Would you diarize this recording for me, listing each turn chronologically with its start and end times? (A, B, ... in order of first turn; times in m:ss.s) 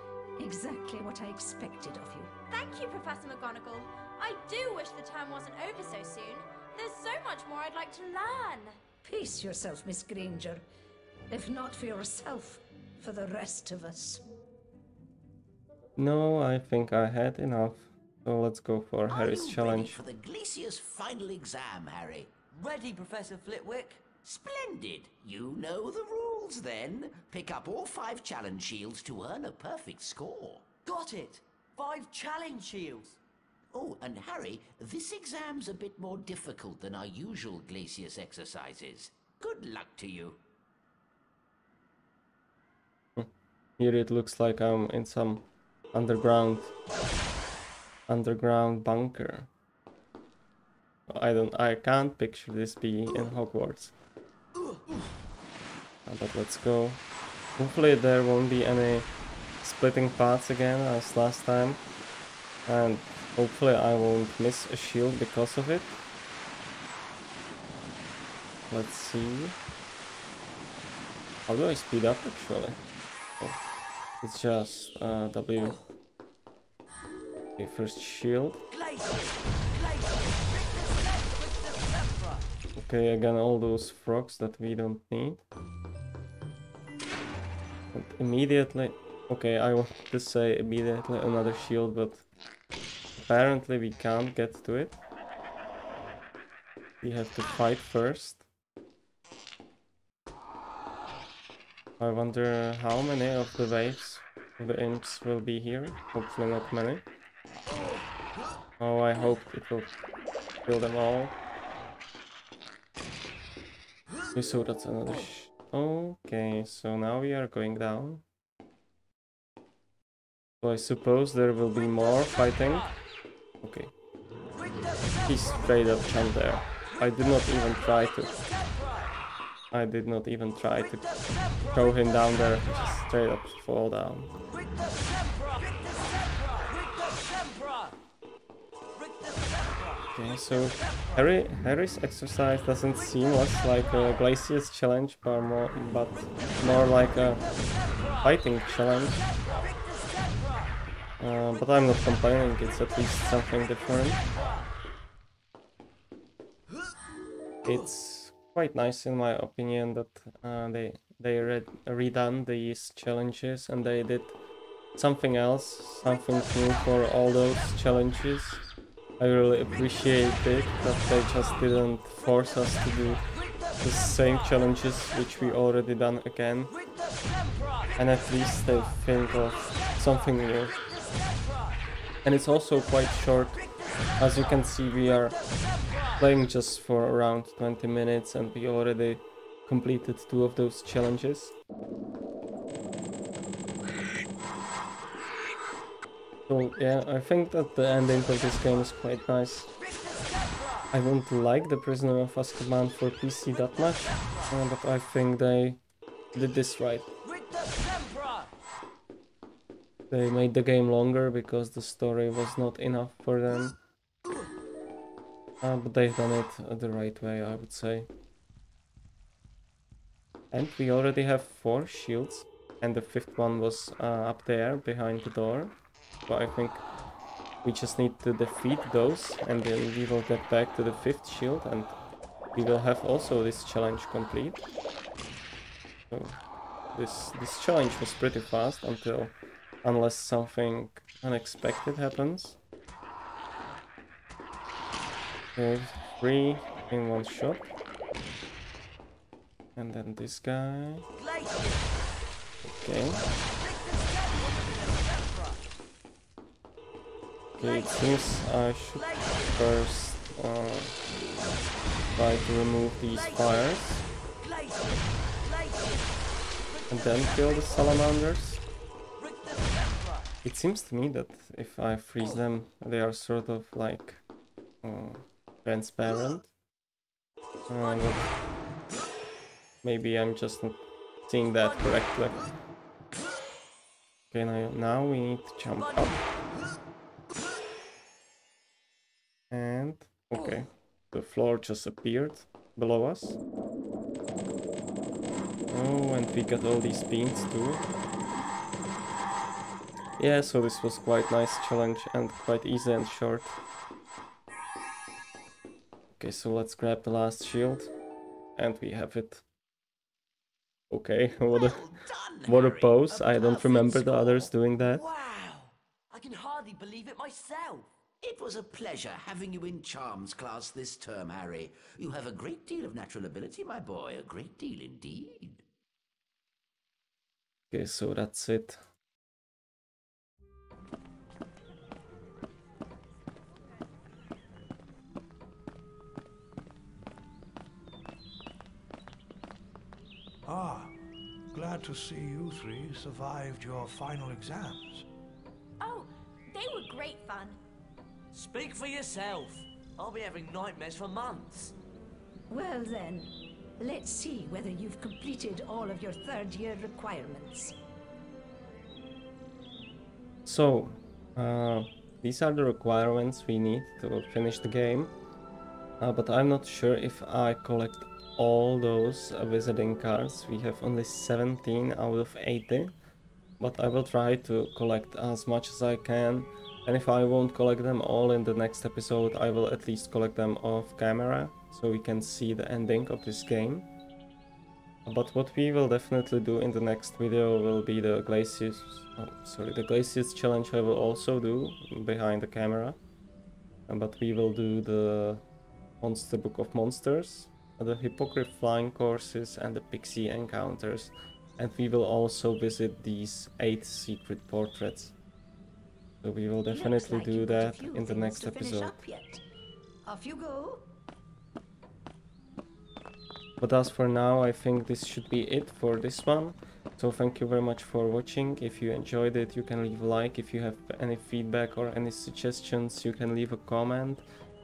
0:00.4-0:02.3 A
0:02.5-0:08.8 B
0:09.0-0:10.6 A
0:11.3-0:14.2 A
0:16.0-0:20.0 C
0:19.1-0:22.3 D
0:22.5-0:24.1 E
0:24.2-0:30.7 D
0:30.8-0:33.2 E
0:33.7-0:40.4 D
0:43.2-0:46.7 C
0:48.1-0:49.5 C
0:51.1-0:53.9 C
0:56.1-0:57.0 C
0:57.6-0:59.1 C
0:59.6-1:01.8 C
1:02.7-1:06.0 C
1:08.7-1:09.6 C
1:11.5-1:12.8 C
1:14.2-1:15.8 C
1:17.6-1:18.6 C
1:18.7-1:22.5 E
1:22.8-1:25.4 C
1:27.9-1:32.2 C
1:33.2-1:35.0 C
1:37.0-1:38.4 C
1:42.0-1:47.0 C
1:48.8-1:50.0 C
1:50.6-1:51.4 C
1:54.3-1:58.2 C
2:00.6-2:02.9 C
2:03.6-2:03.9 C
2:05.3-2:08.3 C
2:07.8-2:09.1 E
2:09.7-2:11.1 C
2:11.1-2:11.7 E
2:11.7-2:14.3 C
2:14.5-2:18.0 E
2:19.0-2:20.1 E
2:20.2-2:27.4 C
2:28.2-2:29.2 C
2:29.4-2:30.7 E
2:31.2-2:34.2 C
2:37.6-2:44.4 C
2:45.0-2:48.6 C
2:49.2-2:53.2 C
2:53.8-2:56.7 C
2:57.2-2:57.9 E
2:58.0-3:00.8 C
3:00.8-3:01.8 E
3:02.2-3:03.6 C
3:04.2-3:05.4 C
3:06.2-3:11.6 C
3:16.5-3:19.7 C
3:19.8-3:20.9 E
3:20.9-3:25.8 C
3:24.2-3:24.5 E
3:26.4-3:27.1 C
3:27.2-3:28.5 E
3:30.1-3:33.8 C
3:35.6-3:38.1 C
3:40.5-3:45.8 C
3:46.3-3:46.8 C
3:47.6-3:52.0 C
3:52.6-3:54.6 C
3:56.9-4:02.6 C
4:05.6-4:07.7 C
4:09.8-4:11.1 C
4:11.2-4:11.9 E
4:12.6-4:13.2 C
4:13.5-4:15.7 E
4:17.6-4:21.0 C
4:17.6-4:18.0 E
4:19.0-4:19.4 E
4:22.2-4:24.0 C
4:24.4-4:26.2 E
4:26.7-4:28.0 E
4:26.9-4:28.6 C
4:29.2-4:30.3 E
4:30.4-4:34.2 C
4:34.8-4:36.5 C
4:37.7-4:38.3 C
4:39.8-4:42.4 C
4:44.3-4:46.2 C
4:49.5-4:53.4 C
4:55.7-4:57.8 C
5:00.2-5:03.6 C
5:06.2-5:07.9 C
5:08.6-5:09.4 C
5:10.9-5:11.8 C
5:11.5-5:14.6 D
5:12.4-5:15.0 C
5:14.8-5:17.9 E
5:18.2-5:25.6 D
5:27.7-5:28.8 C
5:40.5-5:41.0 F
5:41.5-5:45.1 F
5:45.8-5:47.6 B
5:48.3-5:51.8 E
5:52.5-5:57.8 A
6:00.5-6:05.1 C
6:06.0-6:12.9 C
6:13.6-6:23.9 C
6:25.0-6:33.0 C
6:33.9-6:35.4 C
6:36.0-6:45.2 C
6:46.2-6:49.0 C
6:46.7-6:49.4 A
6:50.1-6:50.9 A
6:53.6-7:04.2 C